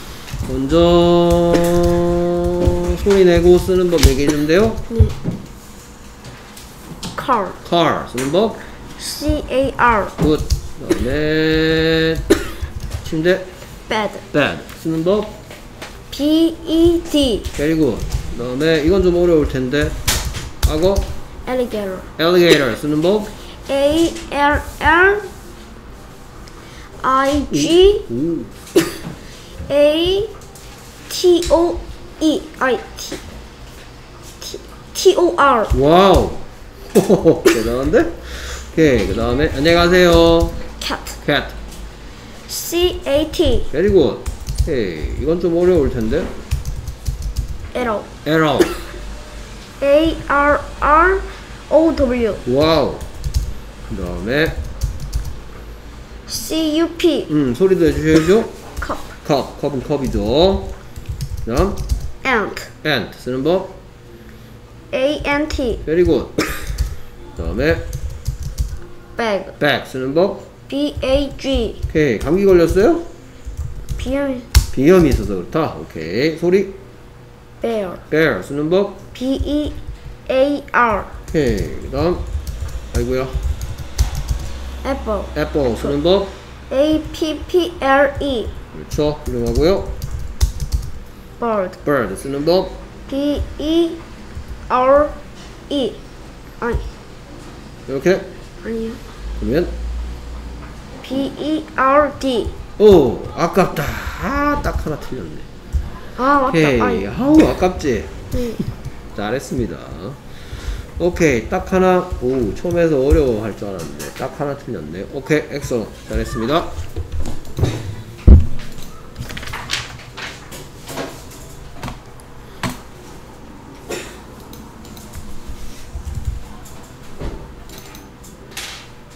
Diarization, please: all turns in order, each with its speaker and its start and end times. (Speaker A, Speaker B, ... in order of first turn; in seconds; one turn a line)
Speaker A: 0.4-2.1
Speaker A: 2.9-4.8
Speaker B: 4.9-5.2
Speaker B: 7.2-7.6
Speaker A: 7.6-8.6
Speaker B: 9.0-10.1
Speaker A: 10.2-12.2
Speaker A: 13.0-13.5
Speaker B: 13.9-14.2
Speaker A: 14.3-15.3
Speaker B: 16.1-17.5
Speaker A: 17.5-20.0
Speaker A: 20.6-21.1
Speaker B: 21.4-22.1
Speaker A: 22.2-23.3
Speaker B: 23.5-25.3
Speaker B: 27.0-28.1
Speaker A: 27.5-28.5
Speaker B: 29.7-30.3
Speaker B: 31.1-33.2
Speaker B: 34.4-35.7
Speaker A: 35.7-40.6
Speaker B: 40.8-41.2
Speaker A: 41.2-41.5
Speaker B: 42.5-43.7
Speaker A: 43.7-46.3
Speaker B: 47.7-48.1
Speaker A: 48.2-48.8
Speaker B: 49.8-52.4
Speaker A: 52.4-53.0
Speaker A: 53.9-54.6
Speaker B: 56.3-57.3
Speaker A: 57.3-58.5
Speaker B: 58.8-59.1
Speaker A: 59.2-60.7
Speaker A: 61.4-61.8
Speaker B: 62.2-62.7
Speaker A: 62.8-63.7
Speaker B: 64.9-65.8
Speaker A: 65.8-66.5
Speaker A: 67.3-67.8
Speaker B: 69.2-69.5
Speaker A: 69.6-70.4
Speaker B: 70.7-71.8
Speaker A: 71.9-73.1
Speaker B: 74.0-74.5
Speaker A: 74.7-76.7
Speaker B: 77.6-78.0
Speaker A: 78.1-79.0
Speaker B: 79.1-81.1
Speaker A: 81.3-82.2
Speaker A: 82.9-83.4
Speaker B: 84.8-85.3
Speaker A: 85.3-86.3
Speaker B: 86.7-88.5
Speaker A: 88.7-89.9
Speaker B: 91.4-91.8
Speaker A: 91.8-92.8
Speaker B: 93.1-94.0
Speaker B: 94.7-95.2
Speaker B: 95.7-96.0
Speaker B: 96.6-96.8
Speaker A: 97.9-98.3
Speaker B: 98.6-99.0
Speaker A: 99.4-99.7
Speaker B: 101.0-102.5
Speaker A: 102.8-105.5
Speaker B: 106.2-107.0
Speaker A: 106.5-108.4
Speaker B: 108.3-108.6
Speaker A: 109.1-116.7